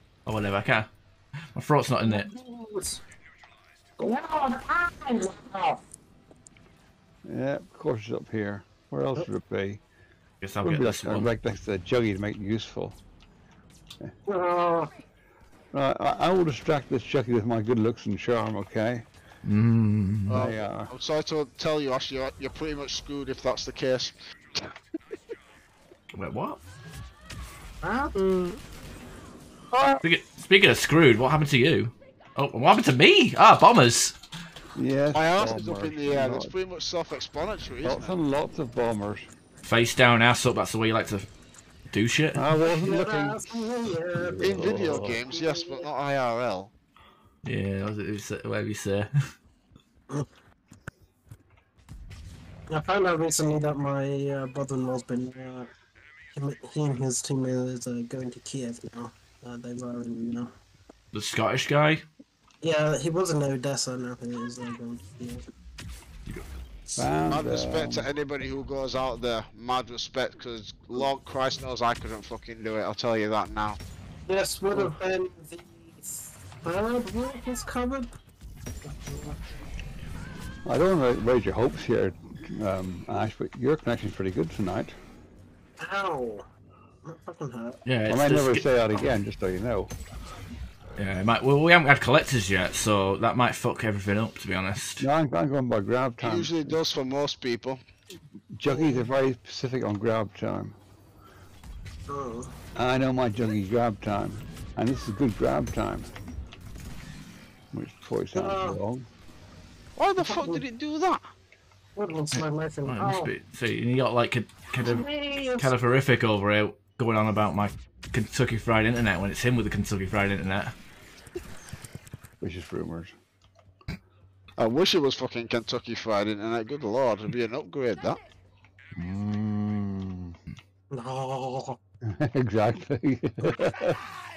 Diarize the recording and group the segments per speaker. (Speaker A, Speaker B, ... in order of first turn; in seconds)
Speaker A: 0.2-0.9, 1.5-2.3, 10.4-11.3, 19.4-20.4, 26.1-26.6, 30.0-34.2, 39.6-41.2, 41.9-42.4, 47.4-49.3, 61.1-62.0, 87.8-88.7, 91.0-95.0, 112.3-120.7
Speaker B: 2.0-3.0, 4.0-5.8, 14.3-14.9, 27.8-28.4, 42.6-45.9, 52.7-55.7, 56.3-60.5, 62.6-65.4, 74.2-78.1, 78.9-79.4, 85.8-86.5, 87.0-87.8, 98.7-99.1, 102.1-102.5, 108.3-108.8, 110.2-110.6, 112.0-113.3, 114.8-115.7, 130.9-131.8
Speaker C: 7.2-9.8, 10.6-13.0, 15.7-19.1, 20.3-20.9, 34.8-36.5, 37.8-39.3, 42.3-43.5, 44.1-45.2, 67.0-68.1, 80.6-85.0, 88.1-89.9, 95.0-96.8, 98.5-100.8, 102.7-106.1, 107.7-109.1, 122.4-123.1, 128.9-130.4, 132.0-134.0
Speaker D: 20.3-24.7, 35.1-38.2, 44.4-46.7, 67.3-73.8, 96.2-97.8, 110.0-111.3, 124.6-128.2